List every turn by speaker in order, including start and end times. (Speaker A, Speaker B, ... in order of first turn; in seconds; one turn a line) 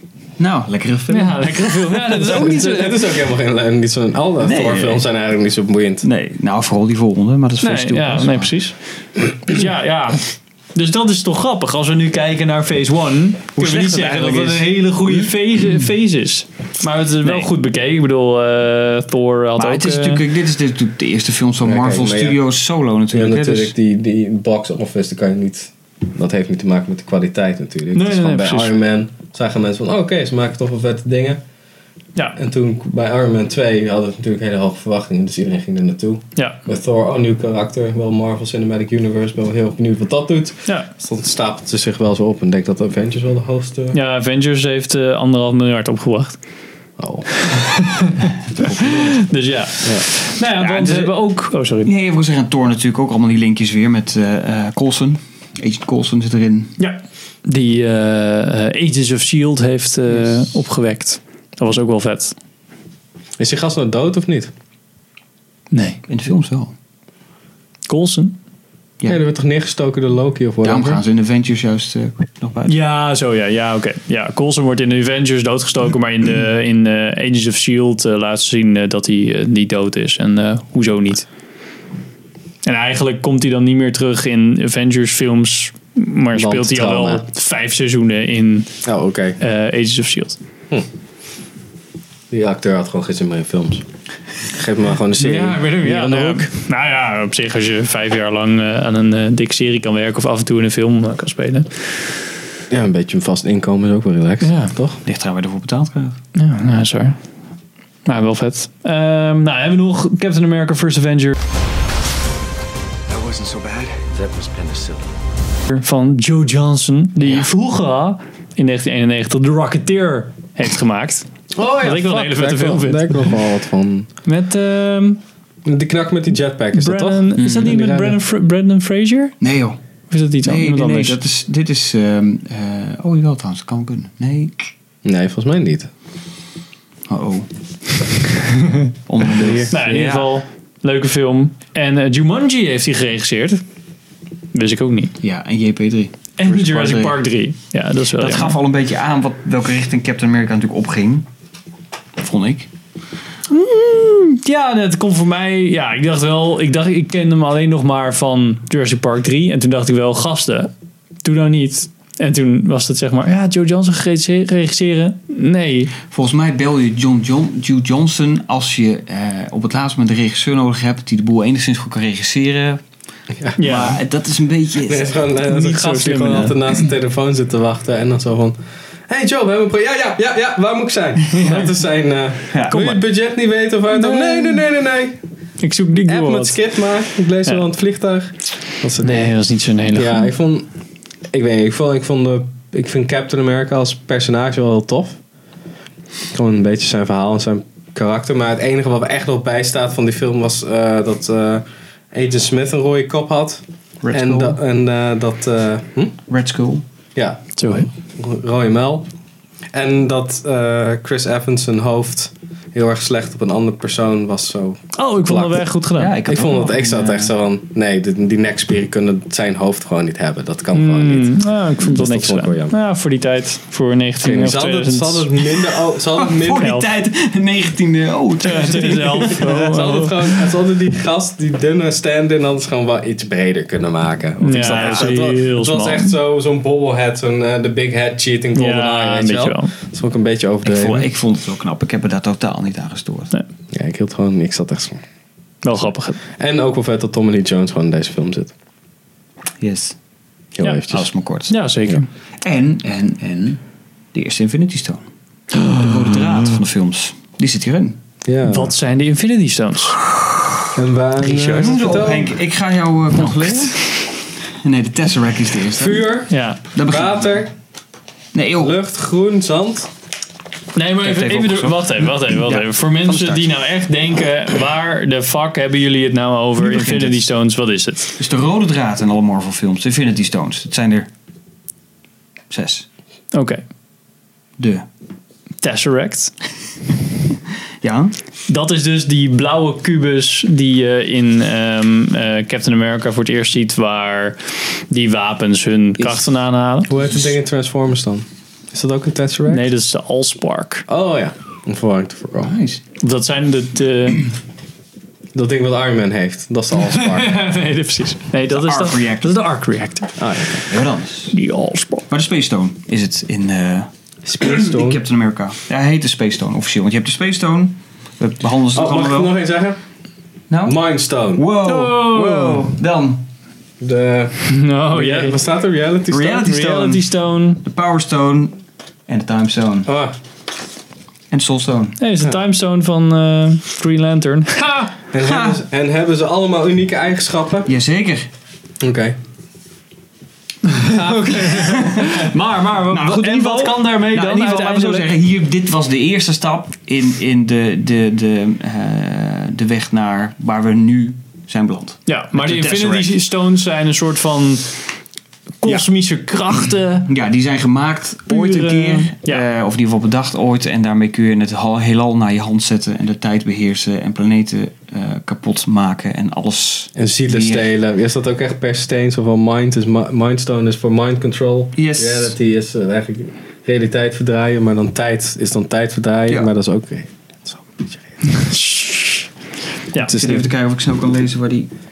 Speaker A: 0.4-2.0
Speaker B: 1.1-3.0
Speaker C: 2.2-6.0
Speaker A: 4.4-5.0
Speaker A: 6.0-8.5
Speaker B: 7.6-8.8
Speaker B: 9.3-20.2
Speaker A: 13.6-15.3
Speaker A: 17.2-17.5
Speaker A: 19.6-23.7
Speaker C: 21.6-22.4
Speaker C: 23.1-31.4
Speaker B: 27.9-28.7
Speaker C: 32.4-44.0
Speaker B: 43.9-46.4
Speaker C: 47.0-47.3
Speaker B: 47.4-48.3
Speaker A: 48.5-49.2
Speaker B: 48.8-51.9
Speaker A: 50.6-51.2
Speaker A: 51.8-56.8
Speaker B: 56.8-62.3
Speaker C: 63.4-64.5
Speaker B: 65.7-66.0
Speaker A: 66.1-66.7
Speaker B: 67.9-68.4
Speaker C: 69.1-71.0
Speaker A: 70.6-72.7
Speaker B: 72.7-81.3
Speaker B: 82.6-88.7
Speaker C: 86.3-87.2
Speaker C: 88.8-89.4
Speaker B: 89.4-90.4
Speaker C: 92.3-93.8
Speaker C: 94.5-96.5
Speaker B: 95.2-102.0
Speaker C: 102.7-105.0
Speaker B: 104.4-104.7
Speaker A: 105.0-106.2
Speaker B: 106.3-107.2
Speaker B: 108.0-111.4
Speaker D: 113.1-115.2
Speaker B: 115.7-123.3
Speaker C: 121.5-124.1
Speaker B: 124.2-125.2
Speaker C: 125.6-128.2
Speaker B: 126.7-129.4
Speaker A: 127.4-127.7
Speaker A: 129.4-129.8
Speaker B: 130.1-131.2
Speaker A: 130.4-134.7
Speaker C: 135.0-135.9
Speaker A: 137.1-137.5
Speaker A: 139.1-140.3
Speaker C: 139.4-139.7
Speaker B: 139.7-143.6
Speaker B: 144.5-145.1
Speaker A: 145.2-147.2
Speaker B: 146.4-148.6
Speaker A: 148.2-151.2
Speaker A: 152.2-152.7
Speaker B: 153.5-160.7
Speaker B: 161.2-165.9
Speaker A: 166.1-172.8
Speaker B: 173.6-174.0
Speaker A: 173.6-175.2
Speaker C: 174.9-178.6
Speaker B: 175.5-176.6
Speaker C: 179.1-185.2
Speaker B: 181.3-181.7
Speaker A: 182.5-182.9
Speaker B: 182.7-183.0
Speaker B: 183.9-184.6
Speaker B: 185.6-186.6
Speaker C: 186.1-189.3
Speaker B: 189.0-190.3
Speaker C: 189.9-190.7
Speaker C: 191.3-195.2
Speaker C: 196.3-206.2
Speaker A: 204.0-204.6
Speaker A: 206.3-206.8
Speaker C: 207.1-209.1
Speaker B: 207.6-207.9
Speaker C: 209.7-215.6
Speaker B: 214.9-216.2
Speaker A: 215.9-217.3
Speaker C: 216.2-222.8
Speaker B: 220.7-225.3
Speaker C: 224.2-226.7
Speaker A: 226.1-229.5
Speaker B: 226.6-226.9
Speaker B: 228.4-230.2
Speaker C: 229.4-241.1
Speaker B: 234.4-236.1
Speaker A: 234.5-235.1
Speaker B: 238.5-239.7
Speaker A: 240.6-243.3
Speaker C: 243.7-245.0
Speaker B: 245.6-246.2
Speaker C: 246.3-248.5
Speaker A: 249.6-249.9
Speaker C: 250.6-251.1
Speaker A: 250.9-251.5
Speaker B: 251.5-252.1
Speaker A: 252.4-253.6
Speaker A: 254.1-255.0
Speaker A: 255.6-258.0
Speaker C: 258.2-258.7
Speaker B: 258.5-260.0
Speaker C: 260.7-262.4
Speaker B: 261.2-261.6
Speaker A: 261.4-264.1
Speaker A: 264.6-266.1
Speaker C: 265.8-266.3
Speaker B: 266.3-266.6
Speaker A: 266.7-267.4
Speaker C: 266.9-267.5
Speaker A: 268.3-268.8
Speaker C: 268.6-269.9
Speaker B: 270.7-278.1
Speaker A: 271.0-273.5
Speaker A: 276.6-277.2
Speaker A: 278.2-281.1
Speaker A: 282.5-282.9
Speaker B: 283.3-283.6
Speaker A: 284.6-284.9
Speaker B: 285.6-286.3
Speaker A: 287.8-288.1
Speaker B: 288.5-294.4
Speaker B: 294.9-296.9
Speaker A: 296.0-296.2
Speaker C: 296.9-299.7
Speaker B: 299.5-300.9
Speaker C: 300.9-302.5
Speaker A: 302.4-302.8
Speaker B: 303.0-304.3
Speaker C: 305.3-307.4
Speaker B: 306.9-310.2
Speaker A: 308.5-309.4
Speaker C: 310.2-310.6
Speaker A: 310.6-311.4
Speaker B: 311.3-312.1
Speaker A: 312.1-319.3
Speaker C: 314.2-315.0
Speaker C: 318.7-319.8
Speaker A: 320.5-320.8
Speaker C: 320.6-321.4
Speaker A: 321.3-323.2
Speaker B: 321.6-322.6
Speaker C: 323.8-326.4
Speaker B: 324.4-325.4
Speaker A: 326.1-327.1
Speaker B: 326.1-327.6
Speaker A: 327.6-329.9
Speaker C: 329.9-330.1
Speaker A: 331.3-332.0
Speaker B: 332.0-334.9
Speaker C: 335.1-337.7
Speaker A: 335.2-335.6
Speaker A: 337.7-338.3
Speaker C: 338.8-339.1
Speaker B: 340.6-345.1
Speaker C: 340.8-341.5
Speaker A: 341.5-353.1
Speaker B: 352.1-354.8
Speaker B: 355.6-357.1
Speaker A: 357.1-367.7
Speaker B: 358.3-359.4
Speaker C: 366.9-378.0
Speaker A: 371.8-372.3
Speaker B: 378.3-379.3
Speaker C: 379.9-380.5
Speaker A: 380.1-381.7